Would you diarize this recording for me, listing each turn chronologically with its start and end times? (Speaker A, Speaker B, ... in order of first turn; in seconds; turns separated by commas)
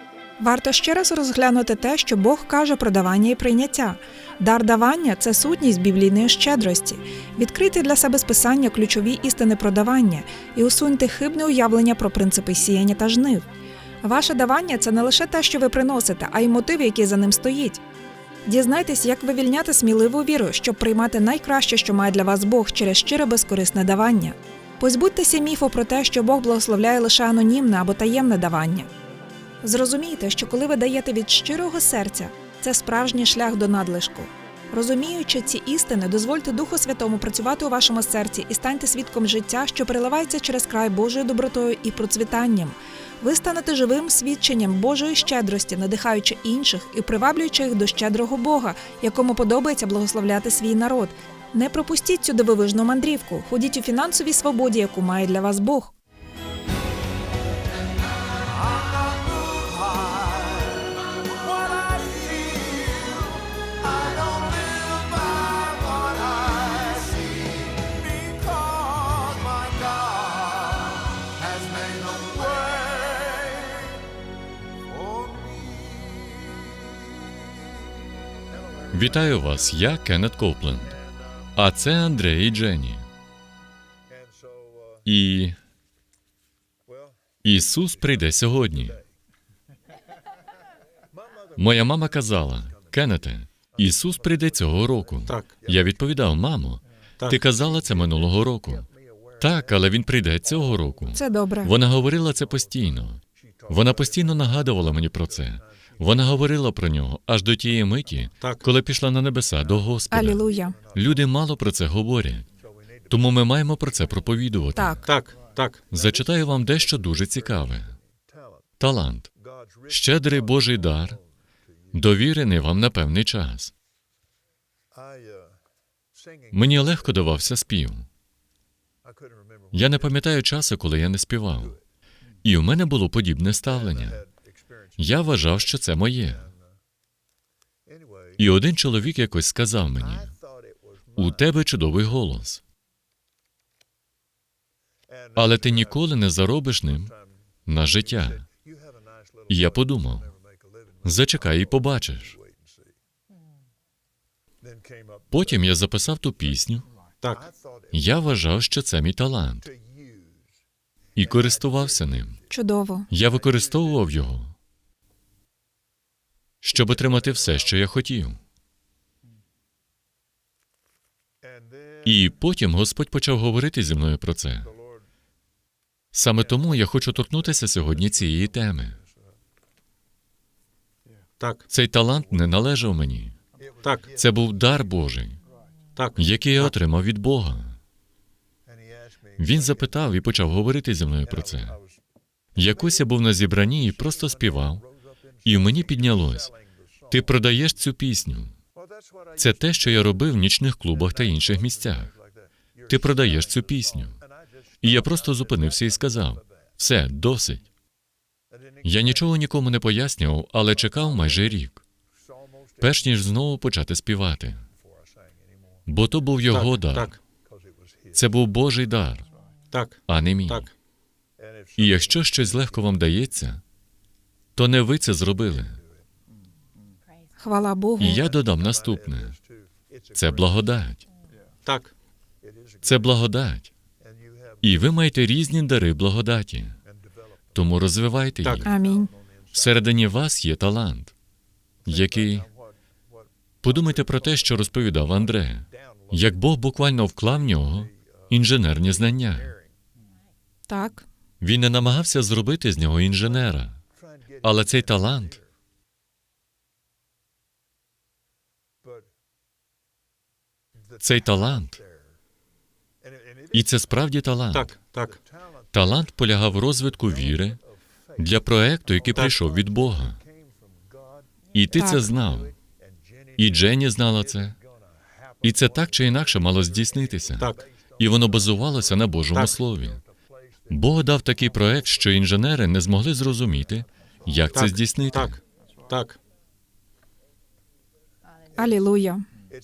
Speaker A: 0.4-13.4, Speaker A: 14.0-17.8, Speaker A: 18.4-28.9, Speaker A: 29.6-55.9, Speaker B: 78.9-81.0, Speaker B: 81.5-83.1, Speaker B: 85.0-85.5, Speaker B: 87.4-89.0, Speaker B: 91.5-98.9, Speaker C: 95.3-95.5, Speaker B: 99.4-112.5, Speaker A: 101.1-101.7, Speaker A: 110.1-110.8, Speaker B: 113.1-115.1, Speaker A: 114.8-115.0, Speaker C: 115.1-115.8, Speaker B: 115.9-118.0, Speaker B: 118.8-119.3, Speaker B: 119.9-121.2, Speaker B: 121.9-123.7, Speaker B: 126.5-128.1, Speaker B: 129.7-131.8, Speaker B: 132.4-134.3, Speaker B: 135.0-136.5, Speaker B: 138.4-140.3, Speaker B: 141.2-142.6, Speaker B: 145.3-147.1, Speaker B: 147.7-148.5, Speaker B: 149.5-150.3, Speaker B: 151.0-152.4, Speaker B: 155.3-156.8, Speaker C: 157.2-157.5, Speaker B: 157.9-159.7, Speaker B: 161.1-162.4, Speaker A: 162.5-163.1, Speaker B: 163.1-164.5, Speaker B: 166.6-168.4, Speaker B: 172.0-174.7, Speaker B: 176.1-179.0, Speaker B: 181.7-183.3, Speaker C: 183.8-184.1, Speaker B: 184.1-185.4, Speaker C: 185.9-186.7, Speaker B: 186.2-187.8, Speaker B: 189.4-191.8, Speaker B: 192.6-194.8, Speaker B: 195.4-196.5, Speaker B: 197.1-198.5, Speaker B: 199.3-202.1, Speaker B: 202.8-204.2, Speaker B: 204.8-207.6, Speaker B: 208.8-211.8, Speaker B: 212.8-214.6, Speaker B: 215.9-217.1, Speaker C: 216.5-217.2, Speaker B: 218.1-219.2, Speaker C: 219.7-220.7, Speaker B: 220.1-220.7, Speaker B: 221.8-223.6, Speaker B: 224.5-225.8, Speaker A: 227.4-228.2, Speaker B: 228.0-229.4, Speaker B: 230.1-231.0, Speaker C: 231.7-231.9, Speaker B: 232.8-233.7, Speaker B: 234.6-236.8, Speaker B: 237.5-238.7, Speaker A: 238.6-239.1, Speaker B: 239.5-241.1, Speaker B: 241.8-242.5, Speaker B: 243.6-249.6, Speaker A: 250.7-251.1, Speaker B: 251.4-253.8, Speaker B: 254.4-255.4, Speaker B: 261.0-261.8, Speaker B: 263.5-264.7, Speaker C: 264.5-265.2, Speaker B: 265.7-267.6, Speaker B: 268.2-270.2, Speaker B: 271.5-272.5, Speaker A: 271.7-272.1, Speaker B: 273.4-274.6, Speaker B: 275.4-280.0, Speaker C: 277.4-277.7, Speaker B: 280.7-285.4, Speaker C: 284.5-285.4, Speaker C: 285.9-286.2, Speaker A: 288.6-289.2